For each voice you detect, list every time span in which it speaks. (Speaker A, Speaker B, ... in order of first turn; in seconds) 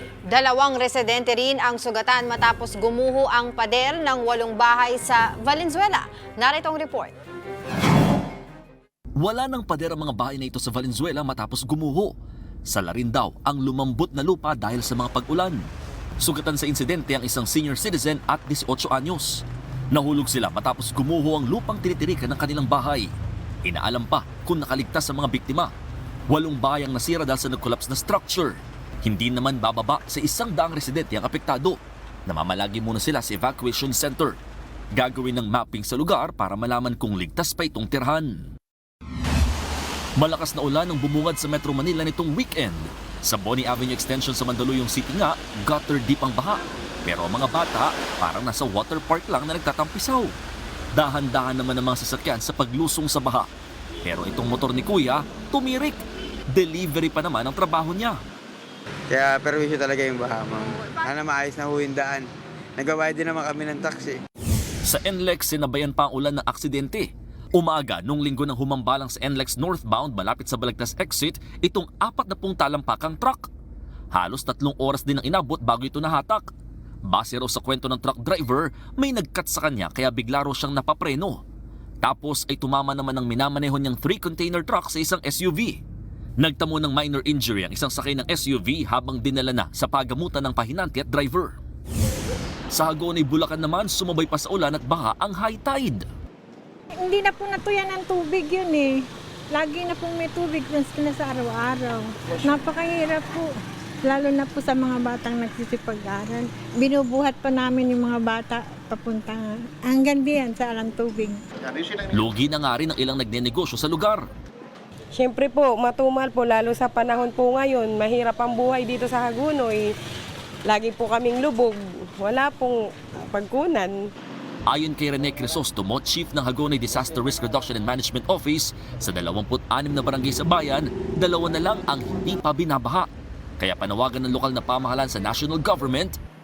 Speaker A: 0.3-7.1
Speaker B: 9.2-12.1, 12.7-15.7, 16.2-23.1, 23.6-25.7, 26.3-34.4, 34.9-38.4, 40.2-50.3, 50.9-53.5, 54.0-56.0, 56.5-58.2, 64.8-73.5, 74.1-76.5, 77.1-81.4, 82.0-85.8, 86.4-91.5, 92.7-96.1, 112.1-114.2, 124.7-133.1, 133.6-136.2
Speaker C: 59.1-62.2, 62.8-64.2
Speaker D: 97.0-98.9, 99.5-103.5, 104.0-111.4
Speaker E: 115.1-119.9, 120.7-124.1